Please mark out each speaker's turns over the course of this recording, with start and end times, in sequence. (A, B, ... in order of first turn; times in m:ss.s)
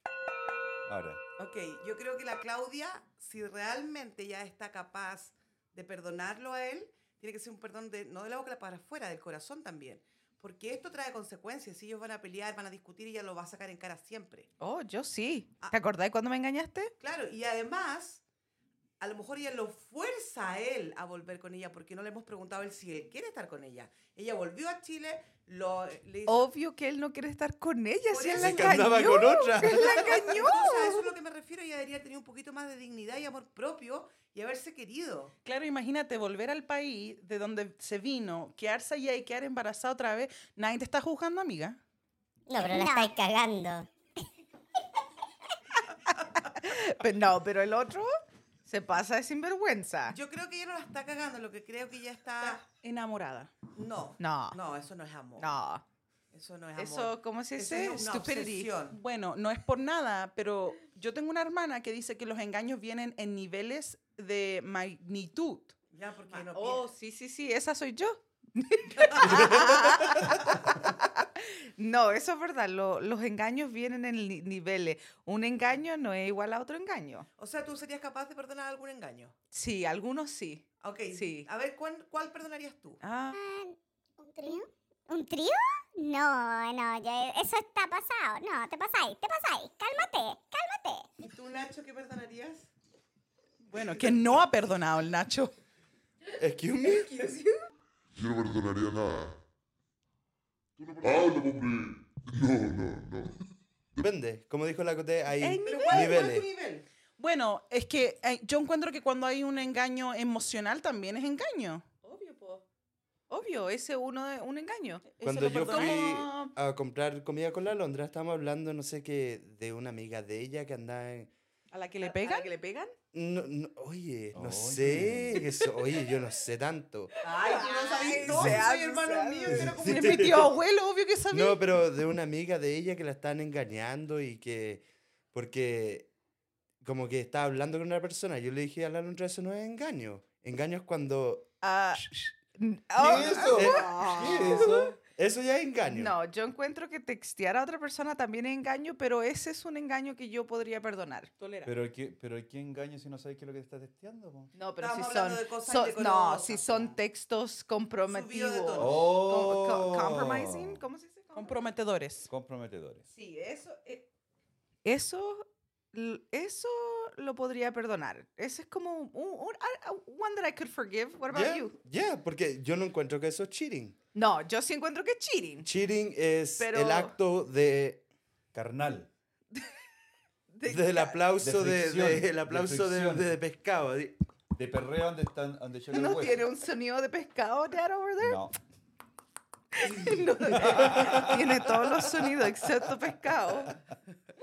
0:00.8-0:01.2 A
0:01.4-0:14.5 B
0:14.6-0:16.9 C
0:17.0-0:18.2 B
0:19.0-0:26.5 B
0:26.3-0:31.1 C
0:28.1-0:29.0 B
0:28.4-0:30.2 D
0:29.6-0:35.3 B
0:35.4-0:41.8 E
0:42.5-0:43.9 F
0:46.4-0:50.2 C
0:50.1-0:52.6 B
0:52.4-0:53.5 E
0:53.7-0:55.6 B
0:54.2-0:54.6 C
0:55.4-0:55.8 C
0:56.3-0:59.0 B
0:56.8-0:58.7 C
0:58.9-1:05.7 E
1:05.9-1:06.8 B
1:06.5-1:17.3 C
1:09.0-1:09.6 B
1:17.4-1:19.3 B
1:19.5-1:21.5 C
1:20.8-1:23.0 B
1:23.0-1:23.4 E
1:23.3-1:31.1 F
1:31.2-1:32.7 B
1:33.6-1:35.5 E
1:36.4-1:37.2 D
1:36.8-1:37.6 C
1:38.1-1:39.4 G
1:40.8-1:43.4 G
1:44.0-1:46.5 D
1:45.4-1:46.3 C
1:45.6-1:46.8 B
1:47.2-1:51.8 E
1:52.0-1:52.6 C
1:53.3-1:56.2 C
1:55.1-1:56.5 E
1:55.2-2:01.3 D
2:01.7-2:02.5 E
2:02.0-2:02.9 C
2:03.1-2:07.1 D
2:04.3-2:05.4 A
2:07.1-2:09.8 C
2:07.2-2:10.4 B
2:08.3-2:08.6 A
2:09.5-2:10.5 D
2:09.8-2:11.6 E
2:11.3-2:16.1 D
2:16.8-2:21.5 D
2:21.6-2:24.9 C
2:23.0-2:25.0 A
2:23.0-2:26.2 D
2:25.9-2:31.3 C
2:31.4-2:31.7 E
2:31.6-2:34.5 A
2:34.5-2:41.6 C
2:34.8-2:37.0 B
2:38.1-2:39.0 B
2:38.8-2:40.8 A
2:41.3-2:42.3 E
2:42.3-2:43.1 A
2:43.1-2:44.1 C
2:44.8-2:51.8 C
2:51.3-2:54.0 D
2:54.1-2:55.7 C
2:55.6-2:58.0 D
2:56.6-2:57.1 C
2:58.5-2:59.1 A
2:59.5-2:59.8 C
3:00.5-3:01.3 C
3:00.6-3:04.2 D
3:01.4-3:03.4 A
3:04.5-3:06.5 A
3:05.9-3:08.4 C
3:08.2-3:08.5 A
3:09.7-3:13.8 C
3:10.4-3:11.8 A